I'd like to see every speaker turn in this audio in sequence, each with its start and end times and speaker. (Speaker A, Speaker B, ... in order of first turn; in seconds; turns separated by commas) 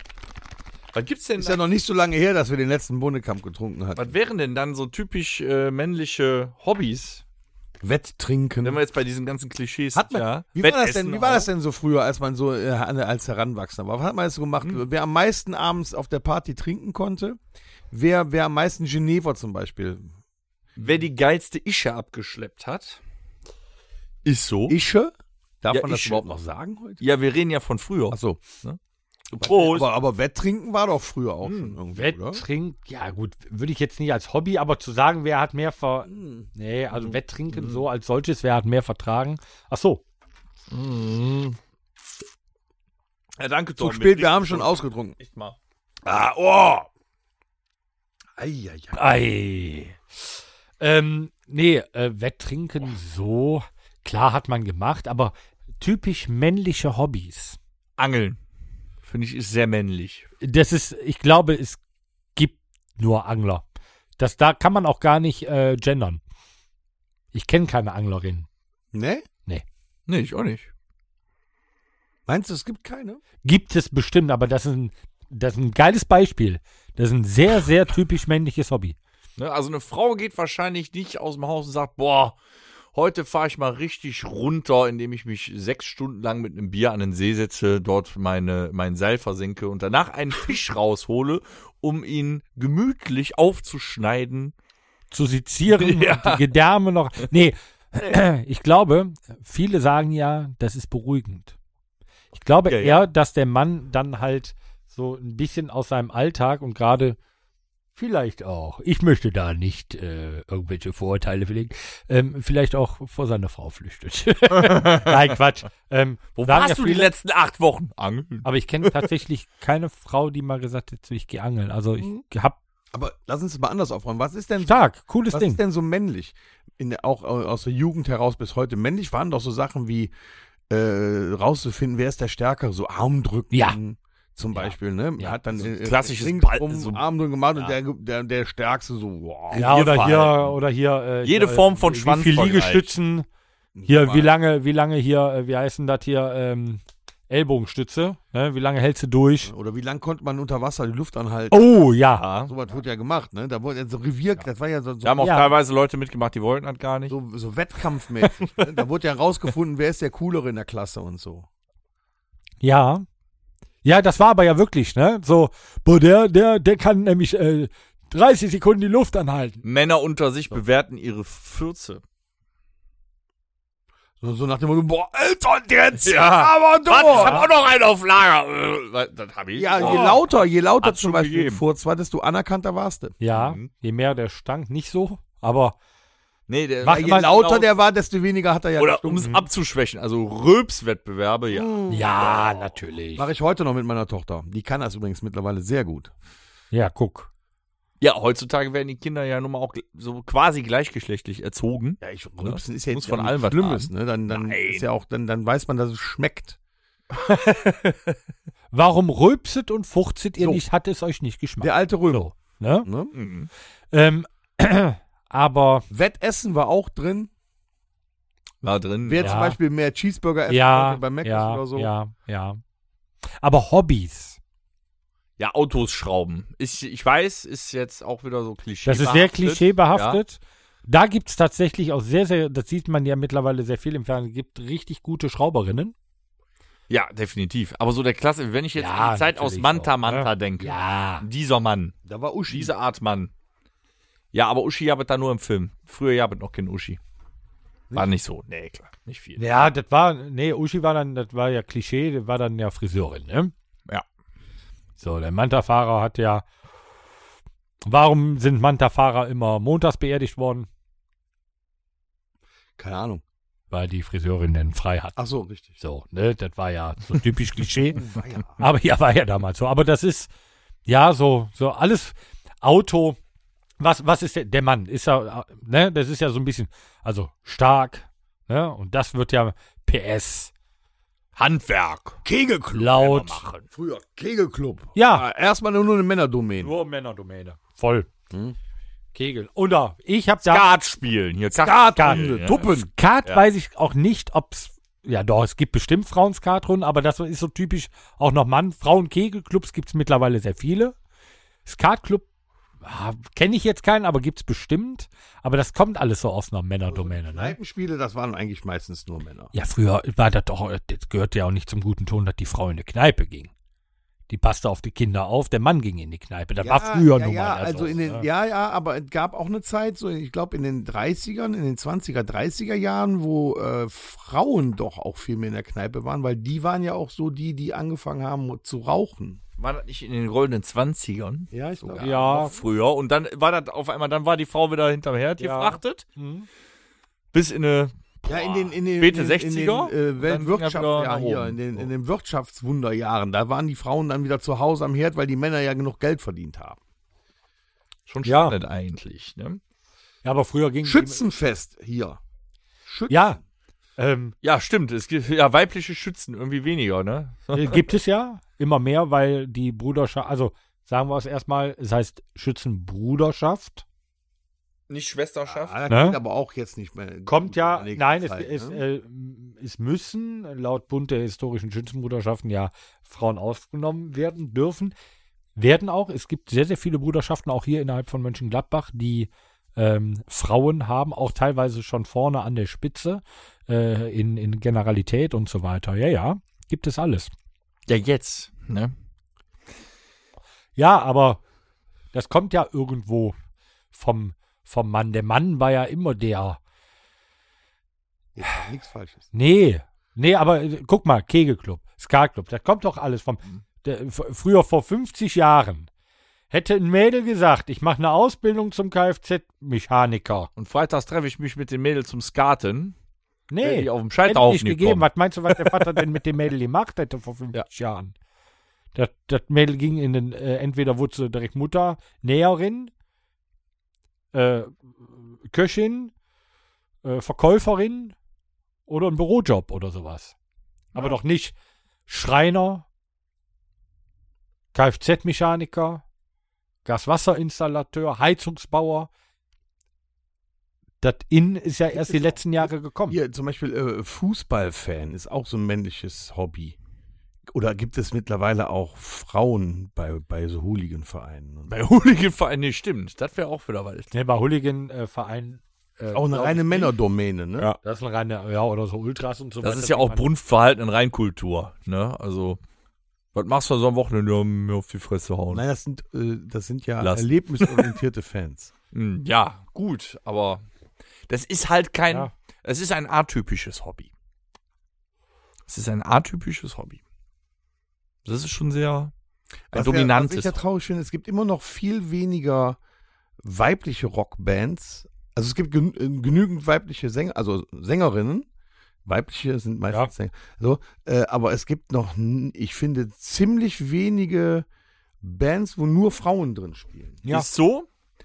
Speaker A: 0.9-1.6, Speaker B: 1.4-4.1, Speaker A: 4.0-7.2, Speaker B: 7.8-8.8, Speaker A: 8.6-11.5, Speaker B: 9.9-17.4, Speaker B: 17.9-20.1, Speaker A: 20.8-23.0, Speaker A: 24.2-24.8, Speaker B: 24.7-27.0, Speaker A: 25.7-26.3, Speaker A: 27.0-28.8, Speaker B: 28.1-28.5, Speaker A: 29.3-29.9, Speaker B: 29.4-32.4, Speaker A: 31.4-31.8, Speaker C: 31.9-40.0, Speaker B: 36.1-36.5, Speaker A: 36.9-37.9, Speaker A: 40.7-41.6, Speaker A: 43.4-45.6, Speaker B: 43.8-45.2, Speaker B: 46.0-46.9, Speaker B: 48.4-49.0, Speaker C: 48.9-50.0, Speaker C: 50.8-57.6, Speaker A: 58.0-58.4, Speaker A: 59.0-60.3, Speaker C: 60.4-61.8, Speaker C: 62.4-63.6, Speaker C: 64.2-66.2, Speaker C: 67.3-68.5, Speaker B: 68.9-69.3, Speaker A: 70.1-70.7, Speaker B: 72.3-73.2, Speaker C: 73.4-79.0, Speaker A: 79.4-82.4, Speaker A: 82.9-94.5, Speaker C: 95.1-101.5, Speaker A: 95.7-96.5, Speaker C: 102.3-107.2, Speaker A: 102.7-103.1, Speaker C: 108.0-117.1, Speaker A: 114.6-115.2, Speaker A: 116.4-119.0, Speaker C: 118.4-122.6, Speaker B: 122.9-130.1, Speaker C: 124.6-125.6, Speaker B: 130.7-139.8, Speaker C: 133.5-133.8, Speaker C: 134.6-135.3, Speaker A: 135.6-137.0, Speaker C: 139.5-143.3, Speaker A: 139.5-140.6, Speaker A: 141.2-142.9, Speaker B: 143.8-144.3, Speaker C: 143.9-149.5, Speaker B: 149.5-151.8, Speaker C: 151.5-152.3, Speaker A: 152.2-152.5, Speaker B: 152.4-155.3, Speaker A: 155.0-157.2, Speaker C: 155.2-155.5, Speaker B: 157.1-161.5, Speaker C: 162.6-163.1, Speaker C: 163.8-169.6, Speaker A: 169.6-172.0, Speaker B: 174.2-177.5, Speaker A: 176.0-181.6, Speaker C: 177.1-177.4, Speaker B: 179.6-183.2, Speaker C: 179.8-180.2, Speaker C: 183.2-185.8, Speaker A: 183.3-183.7, Speaker A: 186.5-187.7, Speaker C: 186.8-187.3, Speaker B: 186.9-189.3, Speaker A: 188.8-192.5, Speaker B: 191.5-192.1, Speaker C: 191.9-193.3, Speaker B: 193.2-196.1, Speaker C: 196.7-197.3, Speaker A: 198.0-204.9, Speaker B: 202.0-206.6, Speaker C: 208.7-212.9, Speaker B: 211.6-212.3, Speaker B: 212.8-213.1, Speaker A: 213.1-213.5, Speaker C: 213.9-215.9, Speaker B: 215.9-217.3, Speaker A: 218.6-219.4, Speaker B: 219.1-221.9, Speaker C: 219.2-219.6, Speaker C: 220.5-222.6, Speaker C: 223.4-224.4, Speaker A: 225.4-230.2, Speaker C: 228.8-235.9, Speaker A: 236.9-242.0, Speaker C: 238.8-241.2, Speaker B: 242.1-242.7, Speaker A: 242.5-243.3, Speaker A: 244.3-247.0, Speaker A: 247.9-249.4, Speaker C: 249.4-253.5, Speaker C: 255.0-256.5, Speaker C: 257.9-260.7, Speaker B: 262.8-263.2, Speaker C: 263.7-265.2, Speaker B: 265.2-265.8, Speaker C: 265.8-268.1, Speaker B: 267.9-268.6, Speaker C: 268.6-270.3, Speaker C: 270.9-273.2, Speaker C: 273.8-280.5, Speaker A: 281.4-282.2, Speaker B: 282.2-283.0, Speaker C: 282.8-283.4, Speaker A: 282.9-283.6, Speaker B: 283.7-286.7, Speaker C: 284.9-285.3, Speaker C: 286.6-288.1, Speaker B: 288.3-288.6, Speaker C: 289.1-290.6, Speaker A: 290.4-292.7, Speaker B: 291.5-292.9, Speaker C: 292.0-292.2, Speaker C: 292.8-301.0, Speaker C: 301.6-302.3, Speaker C: 302.8-307.6, Speaker B: 306.9-309.5, Speaker C: 309.5-313.5, Speaker C: 314.3-318.3, Speaker B: 316.6-329.4, Speaker A: 329.6-336.1, Speaker B: 331.5-332.4, Speaker C: 332.0-332.5, Speaker C: 335.4-336.5, Speaker A: 337.3-341.9, Speaker B: 338.3-346.8, Speaker A: 348.1-349.6, Speaker C: 348.2-348.6, Speaker C: 350.2-351.2, Speaker B: 350.8-352.2, Speaker B: 352.9-353.3, Speaker C: 353.1-353.4, Speaker C: 354.0-354.4, Speaker A: 354.4-357.8, Speaker C: 357.5-363.8, Speaker A: 364.9-365.8, Speaker B: 365.5-368.8, Speaker C: 365.9-366.2, Speaker C: 367.3-374.9, Speaker C: 375.6-387.3, Speaker A: 387.9-388.9, Speaker C: 390.8-391.4, Speaker C: 392.1-393.4, Speaker C: 393.9-396.6, Speaker B: 398.4-399.3, Speaker C: 399.3-405.9, Speaker C: 406.5-410.5, Speaker A: 410.6-412.9, Speaker C: 413.5-418.1, Speaker A: 413.6-416.0, Speaker C: 418.9-422.9, Speaker C: 424.3-426.1, Speaker C: 427.0-428.1, Speaker C: 428.9-430.3, Speaker C: 430.9-431.6, Speaker C: 432.1-432.9, Speaker C: 434.7-436.0, Speaker C: 436.9-439.1, Speaker C: 441.0-443.2, Speaker B: 441.9-446.8, Speaker B: 447.5-451.7, Speaker A: 451.7-454.1, Speaker C: 454.1-456.9, Speaker B: 456.1-457.7, Speaker C: 457.8-460.3, Speaker A: 459.6-462.6, Speaker A: 463.3-465.6, Speaker B: 465.5-468.7, Speaker A: 467.0-467.9, Speaker A: 468.9-470.6, Speaker A: 471.3-474.1, Speaker A: 475.7-477.0, Speaker A: 478.2-479.1, Speaker B: 479.7-482.8, Speaker A: 479.7-480.6, Speaker B: 483.4-488.5, Speaker B: 489.1-494.7, Speaker B: 495.2-497.2, Speaker A: 497.3-497.9